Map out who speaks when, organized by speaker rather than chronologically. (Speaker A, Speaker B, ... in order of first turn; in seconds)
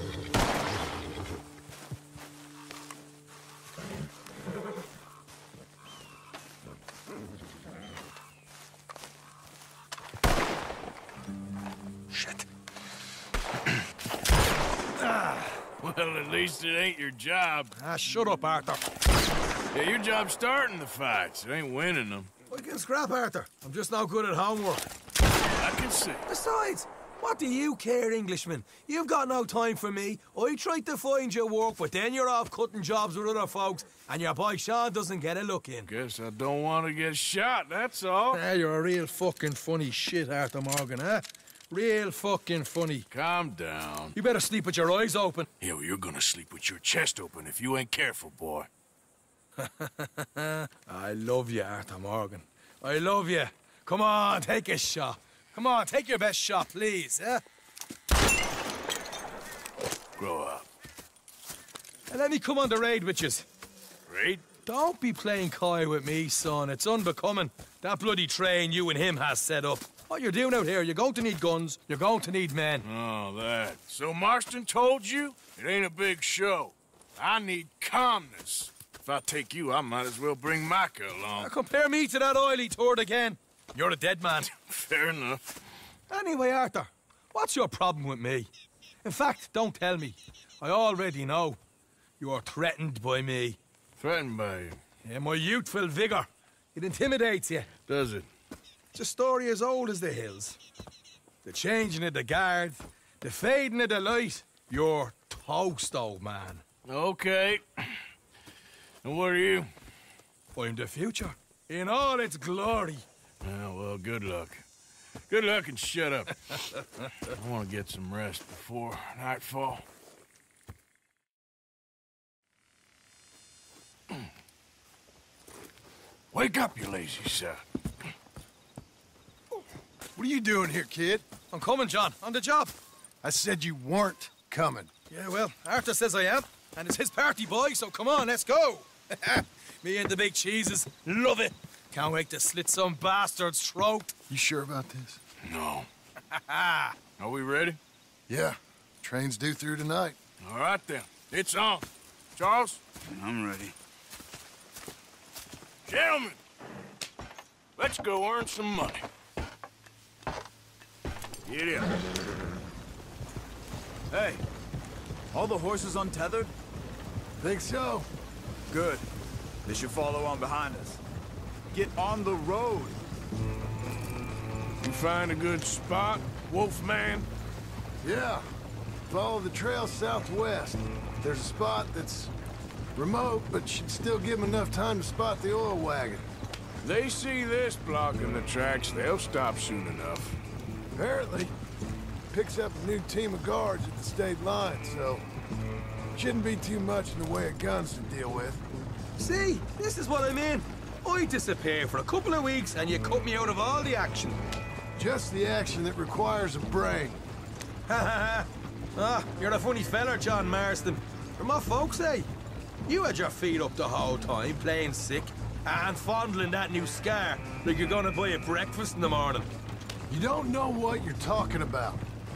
Speaker A: 15.0-15.6, 17.8-18.9, 22.5-24.9, 26.3-35.9, 38.3-43.0, 44.1-45.5, 49.6-57.4, 62.1-63.5, 64.7-72.8, 81.3-84.5, 86.1-88.5, 89.0-91.6, 92.2-93.6, 95.0-97.7, 98.9-100.6, 101.4-106.6, 110.5-113.0, 131.5-132.7, 135.1-144.1, 146.3-146.9, 199.2-204.4, 207.9-212.3, 212.9-219.5
Speaker B: 15.8-17.7, 19.7-22.3, 25.6-26.2, 35.9-38.4, 43.1-44.1, 45.6-48.7, 60.2-60.7, 64.1-64.4, 72.8-81.5, 84.7-85.4, 94.0-94.8, 97.9-98.3, 106.8-108.0, 109.0-109.7, 113.4-114.6, 115.3-119.8, 126.3-127.6, 145.4-145.9, 147.2-147.8, 150.4-152.8, 155.8-156.4, 157.8-159.1, 161.4-161.9, 174.8-177.3, 186.8-190.4
Speaker C: 130.2-131.2, 133.2-134.9, 144.3-145.2, 148.3-150.2, 167.4-168.1, 178.0-178.5, 179.1-182.3, 182.9-186.3, 190.9-191.5, 192.3-195.2, 196.1-198.6, 204.9-207.2, 220.1-222.0
Speaker D: 153.0-153.7, 164.1-164.4, 165.3-166.5, 168.7-169.0, 169.6-171.0, 171.7-173.0